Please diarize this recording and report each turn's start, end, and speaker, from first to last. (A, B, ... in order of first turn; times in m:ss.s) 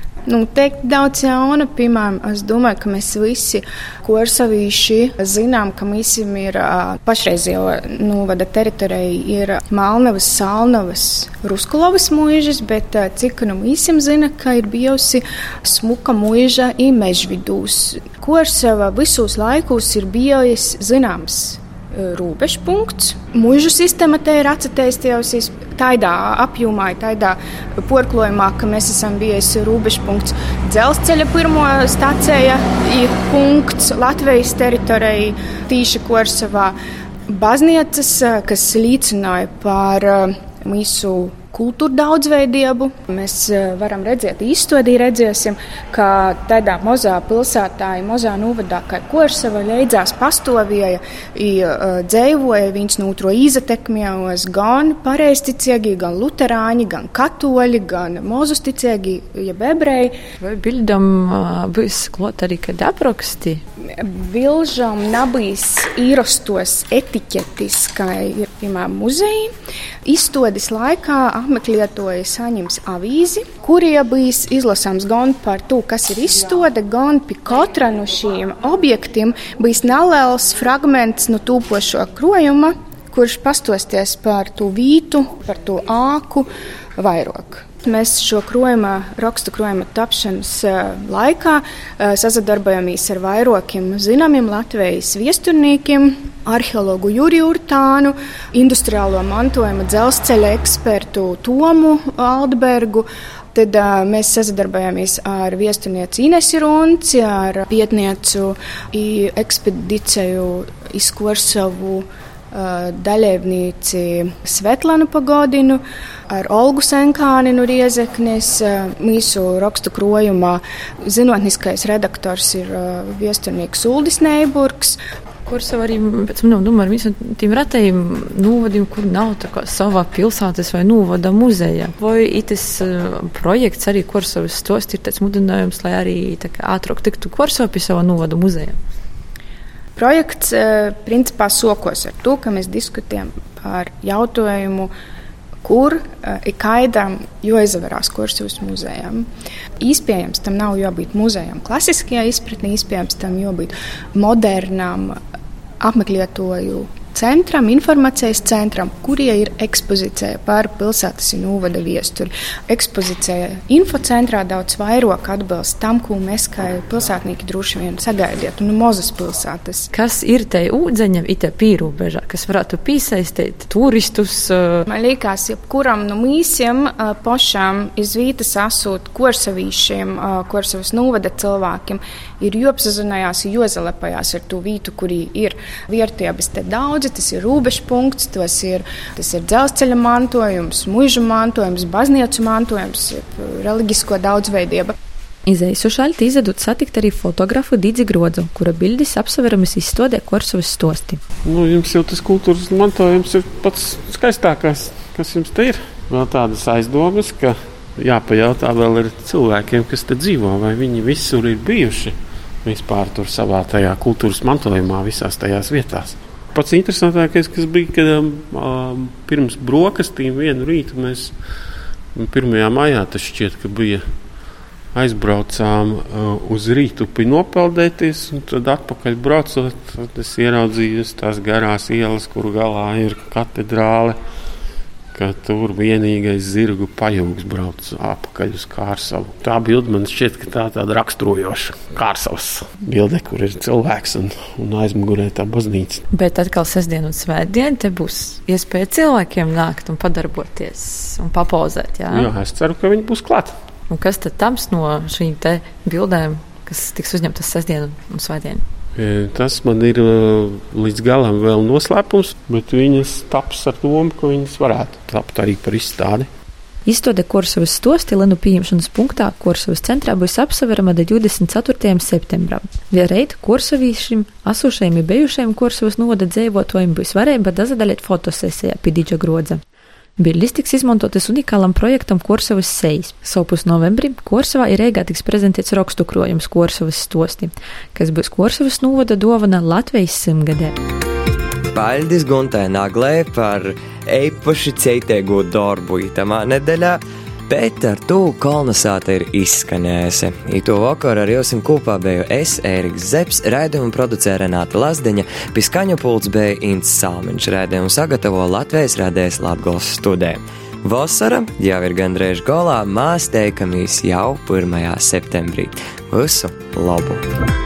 0:00.2-0:36.8 A
0:37.3-1:00.2 A
1:00.4-1:03.6 B
1:03.8-1:09.5 A
1:10.0-2:05.0 A
2:05.5-2:18.8 B
2:20.0-2:24.9 A
2:25.6-2:29.2 A
2:29.8-2:35.2 A
2:35.8-2:49.9 A
2:49.9-2:54.8 B
2:54.9-3:14.9 A
3:15.4-3:21.2 B
3:21.4-3:41.4 C
3:42.1-3:44.1 C
3:44.9-3:54.2 C
3:55.1-4:06.0 C
4:06.1-4:12.3 B
4:12.1-4:13.5 C
4:13.9-4:18.6 B
4:19.0-4:26.3 C
4:26.8-4:39.6 B
4:40.2-4:50.7 B
4:51.7-5:17.2 D